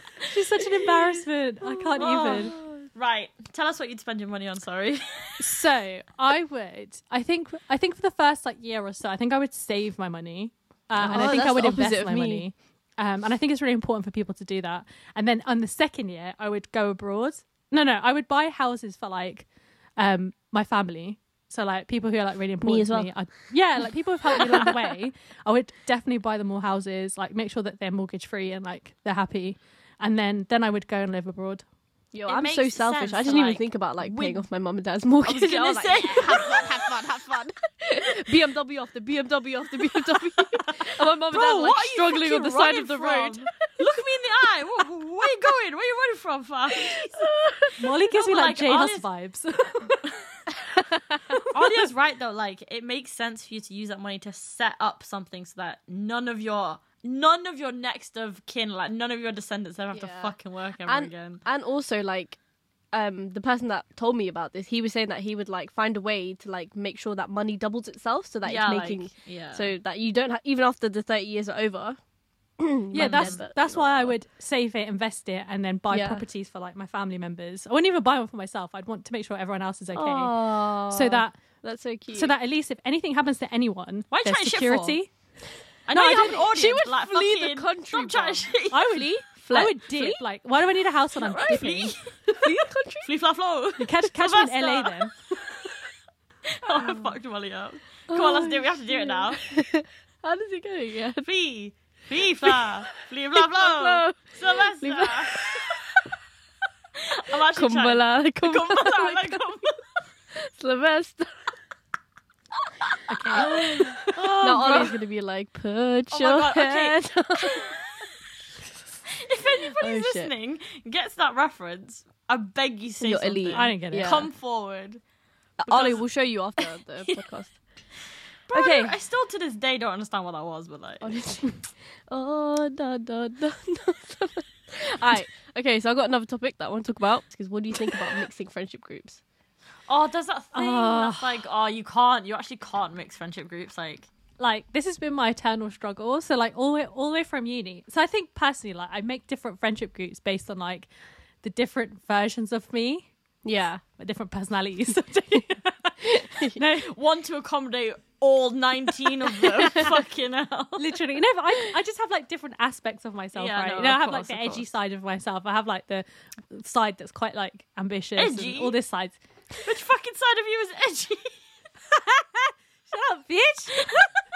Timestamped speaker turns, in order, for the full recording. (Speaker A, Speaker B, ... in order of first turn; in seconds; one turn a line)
Speaker A: 0.2-2.5
Speaker B: 2.0-5.5
Speaker C: 2.0-2.7
Speaker A: 5.4-31.6
Speaker C: 11.0-12.4
Speaker C: 22.6-23.1
Speaker C: 32.1-43.5
Speaker B: 32.2-34.5
Speaker B: 35.2-37.2
Speaker B: 40.6-47.3
Speaker C: 46.7-47.7
Speaker A: 47.8-50.0
Speaker B: 48.1-49.0
Speaker C: 50.6-51.4
Speaker B: 51.5-61.4
Speaker C: 59.9-62.4
Speaker C: 62.9-72.0
Speaker B: 68.4-69.7
Speaker C: 72.6-74.1
Speaker A: 72.9-81.4
Speaker B: 73.0-73.4
Speaker C: 75.9-76.2
Speaker C: 79.9-82.3
Speaker A: 82.1-85.1
Speaker B: 84.1-85.0
Speaker B: 85.9-89.0
Speaker A: 85.9-86.5
Speaker C: 86.2-90.2
Speaker A: 88.7-92.0
Speaker B: 91.2-92.5
Speaker C: 92.3-93.1
Speaker B: 93.0-95.0
Speaker A: 93.8-95.1
Speaker B: 96.5-99.4
Speaker C: 96.8-97.1
Speaker C: 98.1-101.2
Speaker B: 101.2-105.8
Speaker C: 102.4-102.7
Speaker C: 103.3-106.1
Speaker B: 107.1-109.8
Speaker C: 107.3-109.6
Speaker C: 110.3-111.5
Speaker A: 113.1-114.0
Speaker C: 113.1-117.8
Speaker B: 113.4-115.0
Speaker B: 116.1-117.8
Speaker B: 119.2-125.0
Speaker C: 119.6-120.3
Speaker C: 123.0-124.3
Speaker A: 123.5-124.2
Speaker B: 125.6-126.0
Speaker C: 125.7-127.6
Speaker B: 126.6-127.2
Speaker B: 128.5-131.2
Speaker C: 128.5-128.9
Speaker C: 131.0-139.2
Speaker B: 139.9-144.1
Speaker A: 140.5-141.4
Speaker A: 144.4-150.9
Speaker A: 151.4-153.1
Speaker C: 153.4-153.8
Speaker A: 154.0-156.9
Speaker C: 156.0-156.6
Speaker B: 156.8-160.9
Speaker C: 159.6-159.8
Speaker A: 160.8-169.2
Speaker B: 163.3-164.7
Speaker B: 168.2-168.8
Speaker B: 169.6-171.4
Speaker A: 171.9-174.1